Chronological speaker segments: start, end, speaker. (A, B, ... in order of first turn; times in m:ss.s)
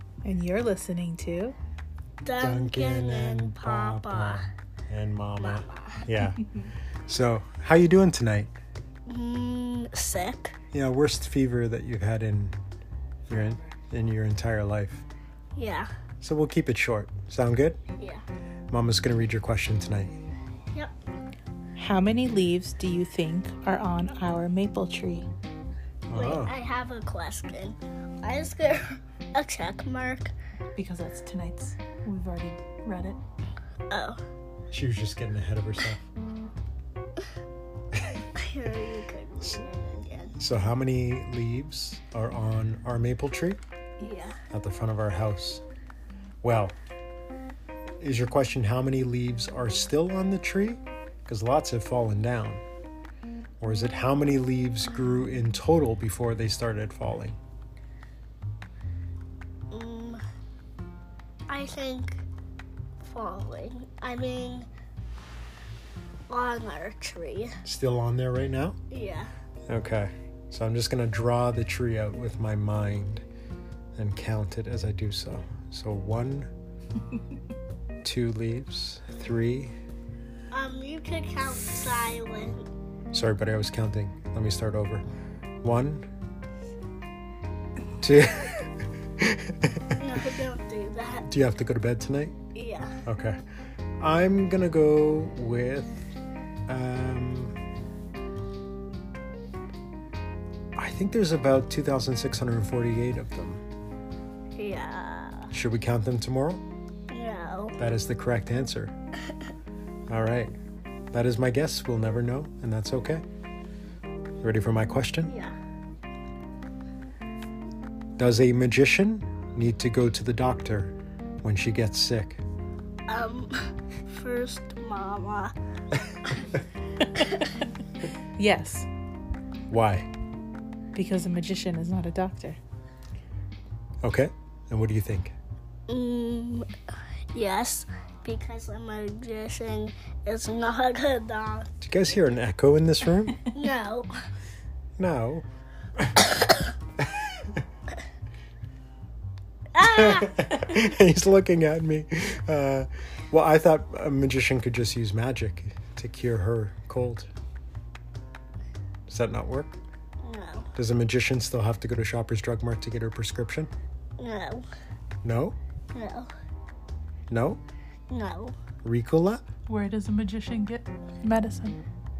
0:00.2-0:01.6 A
0:02.2-0:04.5 B
0:02.4-0:06.4 C
0:05.4-0:06.0 B
0:07.0-0:08.5 C
0:09.1-0:10.5 B
0:10.7-0:12.6 C
0:13.3-0:15.0 C
0:15.5-0:15.9 B
0:16.2-0:17.8 C
0:18.7-0:20.2 C
0:21.8-0:25.3 A
0:26.1-0:26.5 C
0:26.1-0:30.3 B
0:30.8-0:33.2 A
0:33.9-0:34.2 B
0:34.7-0:36.1 C
0:38.3-0:40.4 B
0:40.4-0:43.6 C
0:44.0-0:44.4 B
0:44.5-0:45.6 C
0:46.4-0:46.8 C
0:48.0-0:52.6 C
0:53.6-0:57.4 C
0:59.7-1:00.2 B
1:01.5-1:02.2 B
1:03.0-1:04.7 B
1:06.3-1:07.5 B
1:07.6-1:08.8 C
1:08.9-1:09.3 B
1:09.7-1:13.2 C
1:14.0-1:16.5 C
1:18.0-1:19.7 C
1:20.5-1:22.6 B
1:23.1-1:25.1 C
1:25.6-1:26.1 C
1:28.0-1:30.0 C
1:30.0-1:31.3 B
1:31.3-1:32.4 C
1:32.5-1:33.0 B
1:33.0-1:33.4 C
1:34.0-1:36.1 C
1:36.7-1:37.6 C
1:40.8-1:43.6 C
1:44.5-1:45.5 B
1:45.5-1:46.6 C
1:47.1-1:47.8 B
1:47.8-1:48.9 C
1:50.1-1:50.6 C
1:51.1-1:53.2 C
1:54.4-1:55.3 C
1:55.2-1:55.5 B
1:58.2-2:02.4 C
2:03.1-2:05.5 B
2:06.2-2:06.5 B
2:07.1-2:07.5 B
2:08.4-2:08.9 A
2:09.7-2:10.1 C
2:10.9-2:12.6 A
2:14.0-2:15.3 C
2:15.9-2:16.7 B
2:17.3-2:21.7 B
2:21.8-2:23.4 C
2:23.5-2:24.1 B
2:25.0-2:25.4 C
2:29.7-2:30.6 B
2:29.8-2:37.3 C
2:39.1-2:39.8 C
2:40.2-2:40.7 B
2:40.8-2:43.7 C
2:44.2-2:44.6 B
2:45.2-2:45.6 C
2:45.9-2:46.3 B
2:47.3-2:47.6 C
2:48.1-2:48.5 B
2:48.8-2:49.4 C
2:49.7-2:51.8 A